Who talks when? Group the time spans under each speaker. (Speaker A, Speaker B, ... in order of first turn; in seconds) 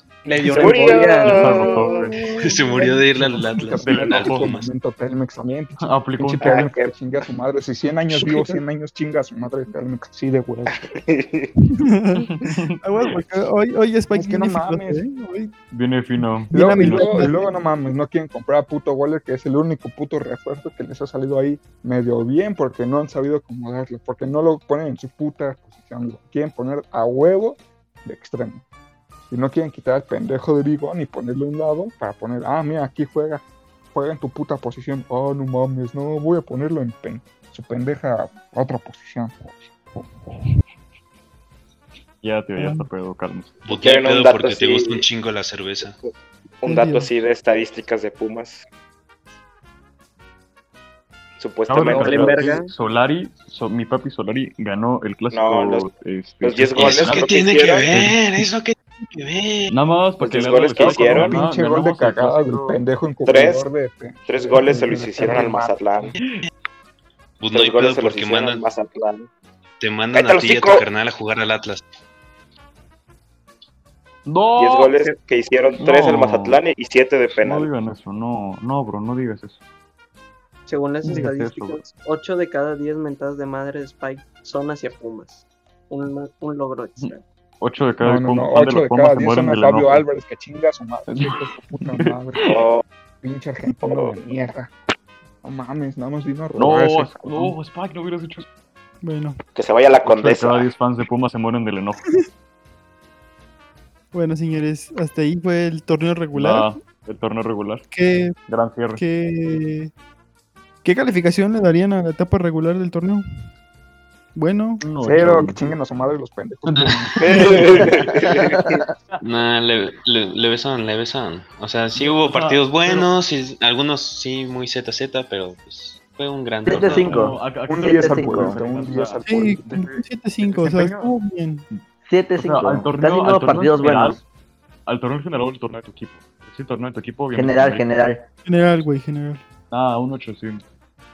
Speaker A: 0.2-2.1, 51.9-52.7, 80.7-87.2
Speaker B: 0.5-2.0, 6.4-6.9, 10.8-11.5, 43.7-45.0, 46.6-48.6, 51.4-52.5, 55.3-55.9, 56.4-57.9, 60.2-61.4, 63.2-63.6, 64.2-66.1, 67.5-69.3, 70.1-70.8, 74.5-77.7, 92.4-92.8, 93.8-94.2, 99.5-100.7, 117.2-118.6
Speaker C: 1.3-2.1, 3.8-4.5, 5.8-6.6, 12.3-13.2, 15.7-17.3, 42.2-43.6, 51.7-57.3, 57.9-58.2, 59.7-62.8, 74.2-75.1, 75.8-76.6, 77.4-79.6, 81.0-81.8, 87.0-90.0, 91.1-92.5, 96.5-98.5, 100.0-102.0, 106.3-107.8, 108.5-109.0, 114.8-115.7, 116.8-118.0, 121.9-123.1, 126.7-131.1, 132.4-134.2, 134.8-137.8, 139.7-140.6
Speaker D: 2.3-4.7, 43.6-46.0, 56.7-59.7, 67.4-68.7, 69.8-71.8, 116.7-117.3, 119.2-127.4
Speaker E: 2.8-10.9, 14.1-15.0, 16.5-28.6, 29.3-39.5, 60.8-66.1, 88.0-92.5, 93.2-94.7, 95.4-97.5, 115.0-117.1, 127.7-129.7
Speaker F: 11.7-15.5, 16.2-17.5, 42.6-42.9, 46.6-47.1, 99.0-99.4, 104.1-106.7, 107.9-108.3, 109.0-109.9, 110.8-113.2, 114.3-114.9, 129.2-131.7, 138.4-139.4
Speaker G: 118.6-118.9, 126.7-128.6, 132.0-134.2, 137.3-138.2